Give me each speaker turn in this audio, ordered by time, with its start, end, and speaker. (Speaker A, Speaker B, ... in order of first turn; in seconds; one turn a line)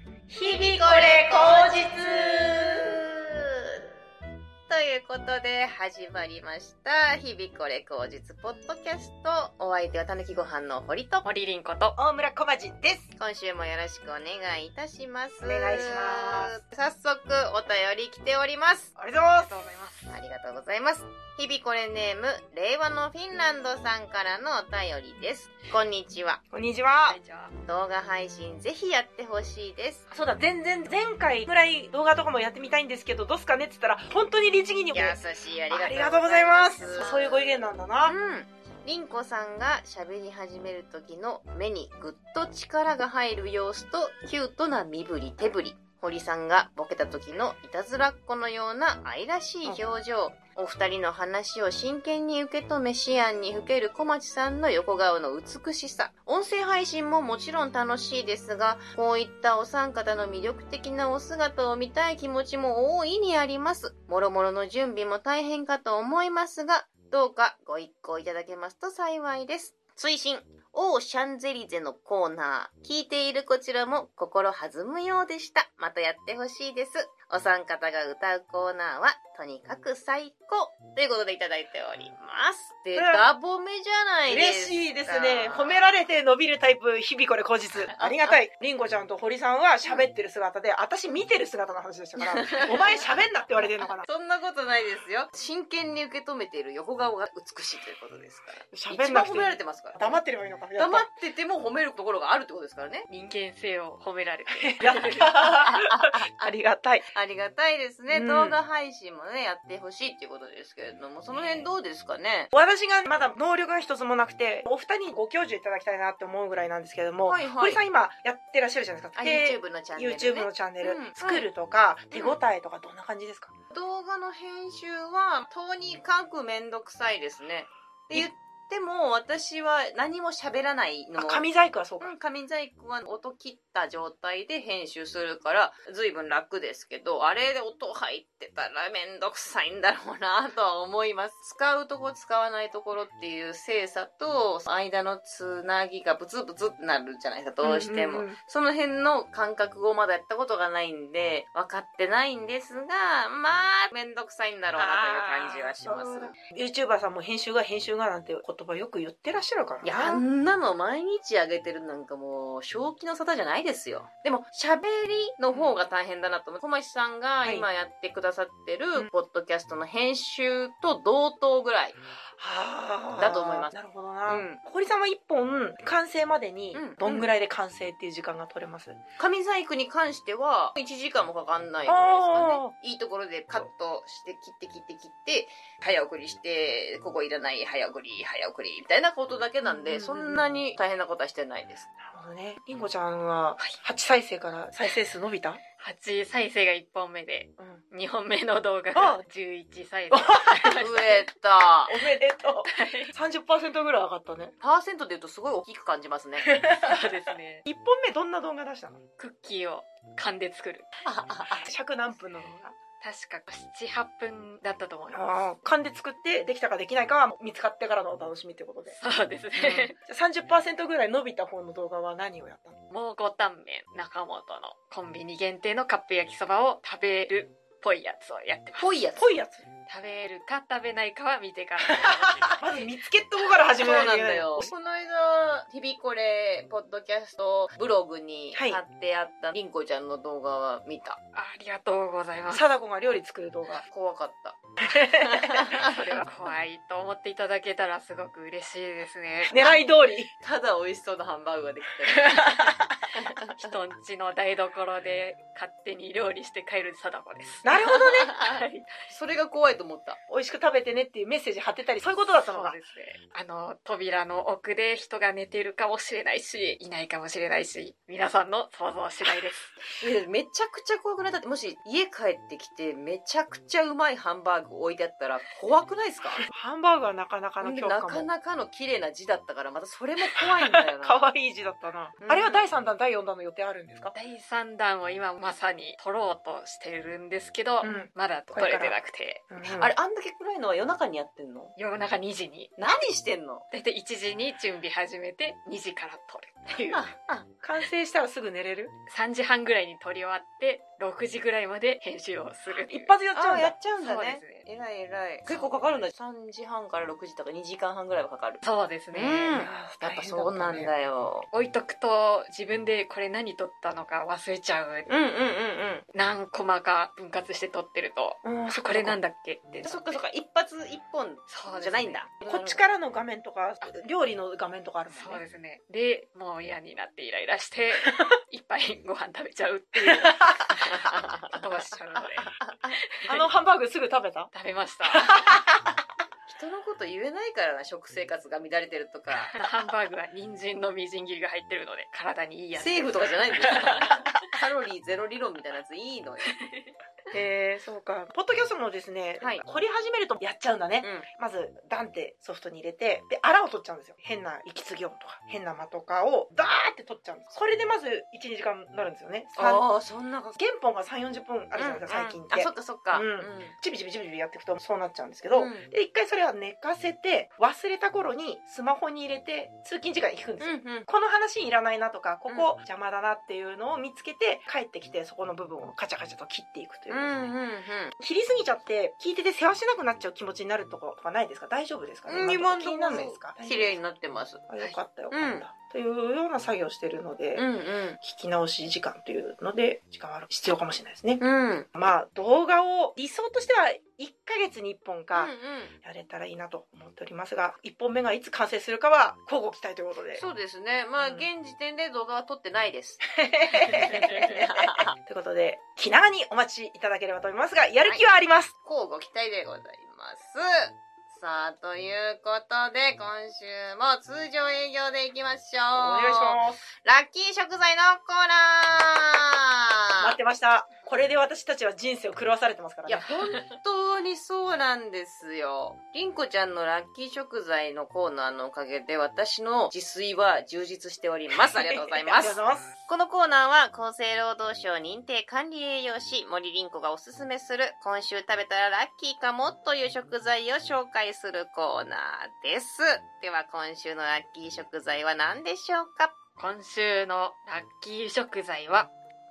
Speaker A: 0.3-3.0
Speaker B: 0.4-3.8
Speaker B: 4.7-11.2
Speaker C: 11.2-12.0
Speaker A: 11.9-13.1
Speaker B: 13.2-18.9
Speaker A: 15.4-16.6
Speaker A: 18.9-19.5
Speaker C: 19.3-20.1
Speaker B: 20.1-26.4
Speaker A: 26.5-27.2
Speaker C: 27.0-27.5
Speaker B: 27.6-30.1
Speaker A: 30.1-35.2
Speaker B: 34.9-37.5
Speaker A: 35.7-38.1
Speaker B: 38.0-85.8
Speaker A: 82.9-83.2
Speaker A: 84.3-94.1
Speaker B: 87.8-88.4
Speaker B: 92.2-100.2
Speaker A: 98.7-101.1
Speaker B: 100.8-103.1
Speaker C: 103.1-105.5
Speaker A: 104.6-107.1
Speaker B: 105.5-106.3
Speaker B: 107.1-112.5
Speaker A: 108.1-108.6
Speaker A: 111.3-111.7
Speaker A: 112.5-123.5
Speaker B: 117.2-117.8
Speaker B: 119.2-121.5
Speaker B: 122.1-122.4
Speaker B: 123.7-131.4
Speaker A: 131.2-132.1
Speaker B: 132.0-156.3
Speaker A: 147.6-148.4
Speaker A: 154.7-160.2
Speaker B: 159.8-171.9
Speaker A: 167.4-167.7
Speaker A: 172.4-179.0
Speaker B: 173.2-173.7
Speaker B: 174.3-174.6
Speaker B: 176.7-177.3
Speaker B: 179.2-191.9
Speaker A: 181.8-182.7
Speaker A: 189.6-190.5
Speaker A: 192.0-195.6
Speaker C: 195.8-201.2
Speaker A: 197.6-197.8
Speaker A: 200.1-200.8
Speaker B: 200.7-202.0
Speaker A: 201.9-204.5
Speaker C: 202.7-203.1
Speaker B: 204.6-206.5
Speaker A: 206.4-209.0
Speaker C: 206.7-207.6
Speaker C: 209.2-210.9
Speaker B: 211.1-211.6
Speaker A: 211.5-212.7
Speaker C: 213.0-215.5
Speaker A: 215.1-219.0
Speaker C: 218.9-219.9
Speaker A: 219.5-222.8
Speaker C: 222.9-229.0
Speaker B: 228.8-229.3
Speaker A: 229.2-229.6
Speaker C: 229.9-232.6
Speaker A: 231.9-234.7
Speaker B: 233.5-241.2
Speaker A: 238.5-238.8
Speaker C: 241.3-242.6
Speaker A: 242.5-243.8
Speaker B: 243.9-244.6
Speaker A: 244.8-245.8
Speaker B: 245.1-246.2
Speaker C: 245.8-249.7
Speaker A: 249.5-250.3
Speaker B: 250.4-252.7
Speaker A: 252.2-252.9
Speaker C: 253.4-258.9
Speaker A: 257.6-258.3
Speaker B: 257.9-260.2
Speaker A: 260.3-262.8
Speaker C: 262.5-269.8
Speaker B: 270.0-276.4
Speaker A: 276.4-278.3
Speaker B: 277.6-281.2
Speaker A: 280.2-284.1
Speaker B: 282.2-282.7
Speaker C: 284.1-289.4
Speaker A: 287.8-288.9
Speaker A: 289.5-289.9
Speaker B: 289.6-291.7
Speaker C: 291.8-292.7
Speaker B: 292.8-293.6
Speaker C: 293.7-297.1
Speaker B: 296.9-297.5
Speaker A: 297.6-298.9
Speaker C: 299.1-303.1
Speaker A: 302.7-303.8
Speaker B: 303.3-311.5
Speaker C: 304.0-304.6
Speaker C: 308.6-309.7
Speaker A: 309.5-310.9
Speaker C: 311.5-315.1
Speaker B: 315.1-316.0
Speaker C: 316.1-320.2
Speaker A: 318.4-319.2
Speaker B: 319.8-322.8
Speaker C: 321.5-322.2
Speaker A: 322.4-325.4
Speaker C: 325.1-333.4
Speaker A: 330.0-330.7
Speaker B: 330.9-331.6
Speaker B: 332.6-333.0
Speaker A: 333.3-334.5
Speaker C: 334.5-335.4
Speaker A: 335.1-335.9
Speaker B: 336.5-339.5
Speaker C: 339.5-344.3
Speaker B: 342.7-346.5
Speaker C: 346.6-346.9
Speaker A: 347.3-359.8
Speaker B: 351.0-351.3
Speaker B: 359.6-360.6
Speaker A: 360.6-377.5
Speaker B: 361.8-363.7
Speaker B: 365.5-365.9
Speaker B: 370.6-371.1
Speaker B: 377.1-378.1
Speaker A: 378.2-384.0
Speaker B: 382.2-384.6
Speaker A: 384.7-387.6
Speaker B: 385.3-385.6
Speaker B: 387.6-388.2
Speaker A: 388.2-391.4
Speaker B: 391.4-391.9
Speaker A: 391.9-400.4
Speaker B: 395.3-395.9
Speaker B: 400.4-403.2
Speaker A: 401.2-401.5
Speaker A: 403.3-408.7
Speaker B: 403.8-405.1
Speaker B: 408.8-420.4
Speaker A: 415.9-416.9
Speaker A: 420.2-423.3
Speaker B: 423.1-446.3
Speaker C: 423.4-423.7
Speaker A: 431.5-432.9
Speaker C: 446.6-449.1